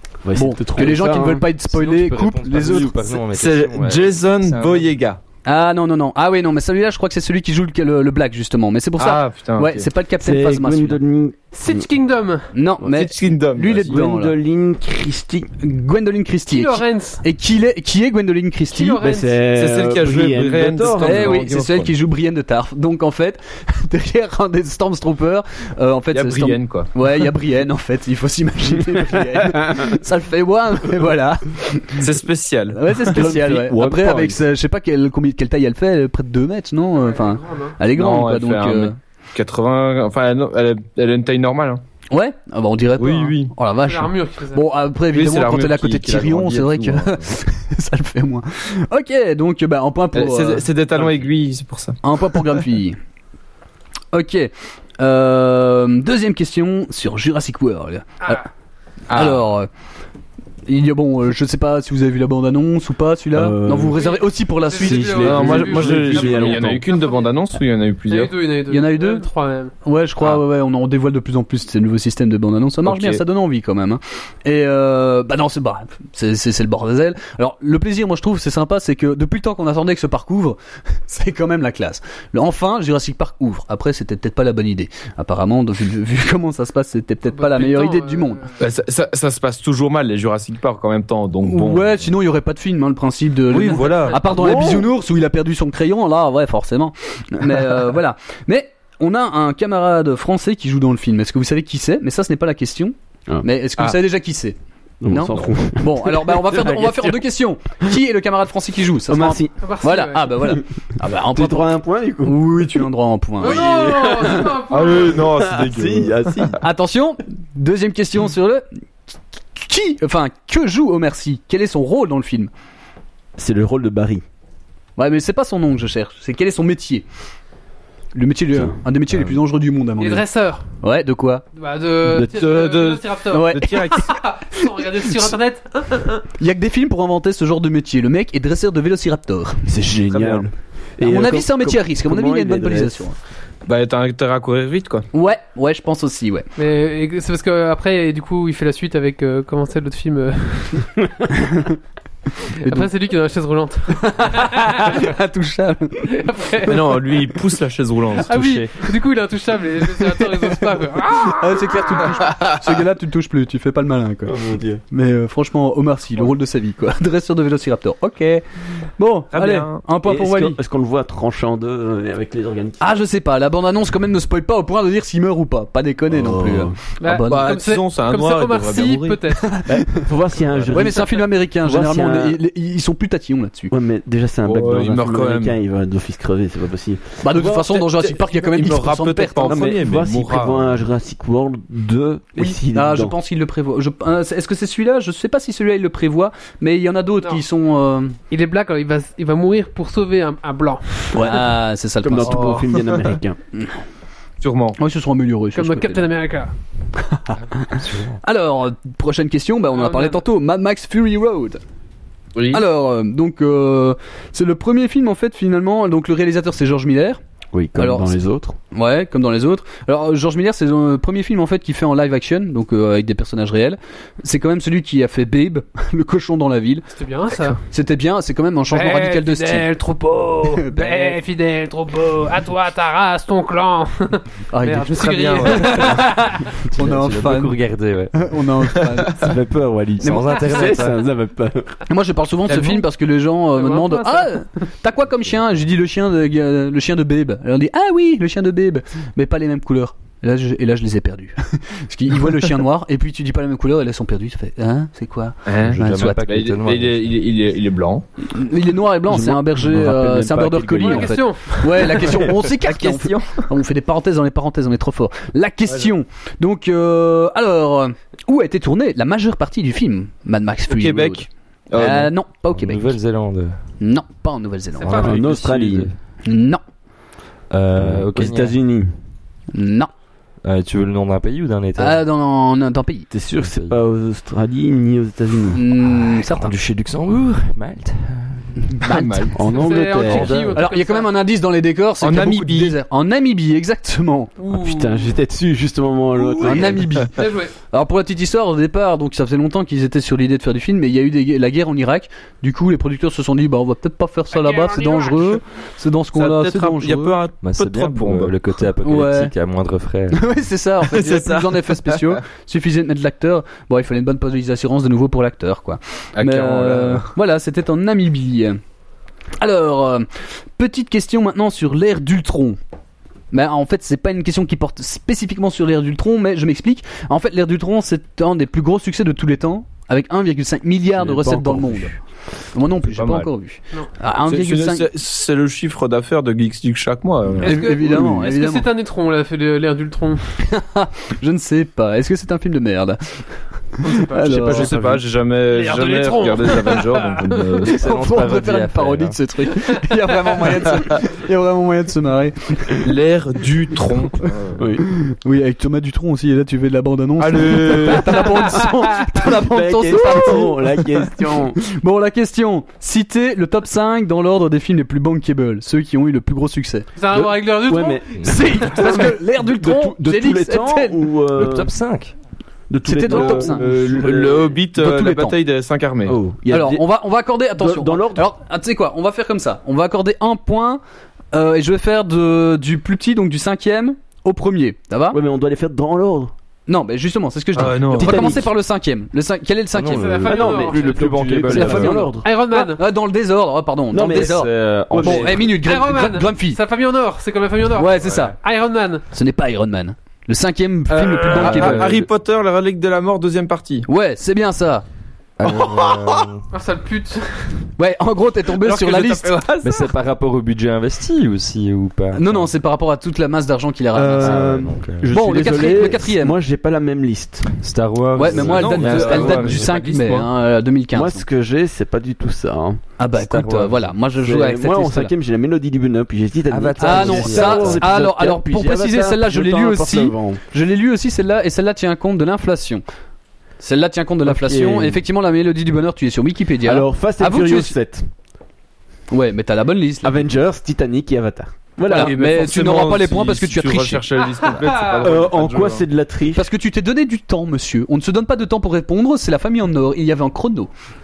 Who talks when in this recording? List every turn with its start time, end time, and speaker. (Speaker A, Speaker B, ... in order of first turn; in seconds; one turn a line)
Speaker A: 0.2-1.5
Speaker B: 0.3-3.1
Speaker C: 1.7-4.9
Speaker D: 3.3-5.2
Speaker B: 5.4-11.0
Speaker D: 9.0-9.9
Speaker A: 10.2-11.9
Speaker E: 11.5-12.5
Speaker B: 12.5-14.3
Speaker D: 12.8-13.9
Speaker A: 13.8-15.6
Speaker B: 15.6-19.0
Speaker E: 16.5-17.2
Speaker E: 18.7-19.4
Speaker A: 19.0-21.4
Speaker D: 19.5-21.9
Speaker B: 21.0-32.1
Speaker D: 26.1-26.9
Speaker A: 29.6-29.9
Speaker D: 32.0-32.8
Speaker B: 32.7-39.0
Speaker A: 33.1-34.4
Speaker E: 37.0-37.8
Speaker D: 37.9-41.8
Speaker B: 42.1-50.7
Speaker D: 43.0-43.5
Speaker E: 43.8-44.6
Speaker D: 45.1-47.3
Speaker D: 50.1-52.6
Speaker B: 52.0-53.0
Speaker B: 54.1-58.4
Speaker E: 58.2-58.5
Speaker D: 59.1-59.5
Speaker B: 59.1-59.7
Speaker B: 60.6-65.6
Speaker A: 63.3-64.0
Speaker E: 63.9-67.3
Speaker A: 64.7-66.8
Speaker D: 65.2-68.3
Speaker E: 68.1-69.7
Speaker B: 68.7-69.2
Speaker B: 69.8-88.4
Speaker D: 72.8-73.2
Speaker E: 87.3-88.6
Speaker D: 88.6-92.0
Speaker B: 91.4-104.5
Speaker D: 93.5-94.2
Speaker E: 93.8-94.2
Speaker A: 94.2-94.9
Speaker A: 105.0-107.2
Speaker B: 105.1-114.3
Speaker A: 109.1-109.5
Speaker E: 109.6-110.3
Speaker A: 110.5-112.7
Speaker E: 113.4-115.2
Speaker A: 113.5-114.5
Speaker D: 114.7-116.5
Speaker A: 115.1-116.6
Speaker B: 116.6-118.6
Speaker B: 119.5-122.5
Speaker A: 123.4-124.2
Speaker B: 125.0-127.0
Speaker B: 128.1-130.2
Speaker E: 130.0-130.6
Speaker B: 130.8-131.4
Speaker E: 131.6-136.2
Speaker D: 132.1-134.1
Speaker B: 133.3-133.9
Speaker B: 136.4-139.7
Speaker A: 139.7-143.0
Speaker D: 140.1-140.5
Speaker B: 141.0-143.2
Speaker D: 143.7-145.1
Speaker B: 145.1-146.5
Speaker E: 146.6-150.9
Speaker B: 151.4-151.7
Speaker B: 152.6-152.9
Speaker E: 152.6-155.0
Speaker B: 154.0-156.2
Speaker E: 156.1-156.8
Speaker D: 156.7-158.3
Speaker E: 158.3-162.1
Speaker C: 158.3-158.7
Speaker B: 160.1-164.3
Speaker A: 164.3-164.8
Speaker B: 164.9-168.4
Speaker B: 169.0-170.6
Speaker D: 169.3-169.8
Speaker A: 170.0-172.9
Speaker B: 172.8-177.5
Speaker A: 176.1-176.7
Speaker E: 177.0-179.6
Speaker D: 177.2-179.2
Speaker B: 179.4-179.7
Speaker A: 179.7-182.4
Speaker B: 180.7-183.7
Speaker A: 183.7-187.7
Speaker D: 184.4-185.6
Speaker B: 187.2-189.7
Speaker D: 187.7-190.8
Speaker A: 189.4-193.1
Speaker B: 192.4-198.2
Speaker E: 198.3-201.2
Speaker A: 201.1-201.5
Speaker B: 201.1-202.6
Speaker A: 202.0-203.4
Speaker D: 202.2-203.0
Speaker D: 204.4-204.8
Speaker B: 204.8-206.1
Speaker E: 205.5-206.5
Speaker B: 207.0-211.6
Speaker C: 207.4-208.2
Speaker E: 209.7-210.2
Speaker D: 212.3-212.6
Speaker B: 212.5-217.2
Speaker A: 217.5-218.6
Speaker B: 217.8-218.2
Speaker B: 218.7-226.8
Speaker E: 226.9-227.6
Speaker B: 227.7-229.7
Speaker E: 228.7-236.4
Speaker B: 230.4-231.2
Speaker B: 234.5-235.9
Speaker D: 234.7-236.0
Speaker C: 236.7-238.4
Speaker B: 236.7-237.6
Speaker B: 238.1-239.3
Speaker D: 238.8-239.1
Speaker A: 239.2-241.8
Speaker C: 240.0-241.1
Speaker B: 240.0-240.7
Speaker B: 241.9-256.3
Speaker E: 243.5-244.4
Speaker D: 255.5-258.0
Speaker C: 255.6-257.1
Speaker B: 258.3-272.9
Speaker A: 259.1-261.2
Speaker E: 260.8-262.0
Speaker D: 262.6-263.4
Speaker D: 270.7-272.1
Speaker C: 272.5-273.6
Speaker B: 273.8-275.3
Speaker E: 274.7-275.1
Speaker C: 275.0-275.9
Speaker A: 275.0-275.9
Speaker B: 276.2-276.6
Speaker C: 277.5-278.6
Speaker A: 277.8-278.9
Speaker B: 279.5-279.9
Speaker C: 280.4-282.0
Speaker B: 281.8-283.1
Speaker A: 283.1-285.6
Speaker C: 283.4-283.8
Speaker B: 285.5-286.5
Speaker C: 285.9-288.8
Speaker D: 288.8-289.4
Speaker B: 288.8-289.3
Speaker A: 289.3-290.6
Speaker E: 289.5-291.1
Speaker B: 290.0-294.3
Speaker D: 292.0-292.8
Speaker E: 294.4-295.1
Speaker A: 294.5-297.0
Speaker E: 296.2-297.5
Speaker B: 296.4-307.2
Speaker E: 304.3-305.4
Speaker D: 306.1-308.4
Speaker C: 307.4-310.3
Speaker B: 308.8-309.3
Speaker B: 310.1-318.6
Speaker D: 310.9-312.2
Speaker D: 316.1-317.1
Speaker B: 319.4-322.6
Speaker B: 323.3-331.9
Speaker A: 330.9-331.9
Speaker B: 332.5-334.9
Speaker D: 332.9-333.3
Speaker D: 334.3-337.6
Speaker E: 337.4-340.2
Speaker B: 337.4-338.7
Speaker B: 340.4-343.2
Speaker E: 343.8-344.5
Speaker B: 343.9-344.8
Speaker D: 344.1-347.8
Speaker E: 345.5-347.6
Speaker C: 347.7-349.2
Speaker B: 347.8-352.9
Speaker D: 352.8-354.6
Speaker A: 354.6-354.9
Speaker B: 354.9-366.9
Speaker D: 357.2-358.4
Speaker A: 359.1-361.6
Speaker E: 367.0-368.8
Speaker A: 367.1-371.8
Speaker B: 368.2-371.1
Speaker C: 371.3-372.1
Speaker A: 372.7-374.5
Speaker B: 372.8-373.6
Speaker D: 373.1-376.1
Speaker B: 374.8-375.4
Speaker A: 376.1-376.8
Speaker B: 376.5-380.8
Speaker A: 377.6-378.2
Speaker B: 381.3-385.2
Speaker A: 385.1-386.3
Speaker B: 386.7-390.2
Speaker D: 387.5-388.4
Speaker A: 387.9-388.5
Speaker C: 389.7-392.1
Speaker E: 389.8-391.7
Speaker A: 390.2-392.2
Speaker B: 391.5-396.6
Speaker E: 392.2-392.8
Speaker A: 393.9-395.4
Speaker C: 394.0-395.5
Speaker E: 395.6-399.0
Speaker B: 397.8-398.4
Speaker B: 399.1-401.9
Speaker D: 400.9-403.9
Speaker C: 401.2-402.1
Speaker B: 403.9-404.8
Speaker C: 405.4-406.4
Speaker D: 405.4-406.3
Speaker E: 406.5-407.5
Speaker B: 407.8-409.4
Speaker D: 408.5-409.9
Speaker C: 409.6-412.5
Speaker B: 412.1-414.4
Speaker A: 413.9-417.6
Speaker C: 414.2-415.3
Speaker B: 415.1-416.4
Speaker C: 417.6-419.7
Speaker B: 418.1-421.2
Speaker A: 418.3-418.9
Speaker D: 418.3-420.3
Speaker A: 420.9-422.8
Speaker B: 423.0-425.1
Speaker C: 423.1-424.0
Speaker A: 424.2-430.4
Speaker C: 426.5-428.0
Speaker B: 426.8-432.8
Speaker B: 433.6-437.7
Speaker A: 434.2-435.0
Speaker A: 436.6-438.1
Speaker B: 439.1-440.3
Speaker A: 440.0-442.1
Speaker B: 441.9-444.1
Speaker D: 441.9-445.9
Speaker E: 444.4-445.0
Speaker A: 445.0-446.4
Speaker B: 446.3-450.7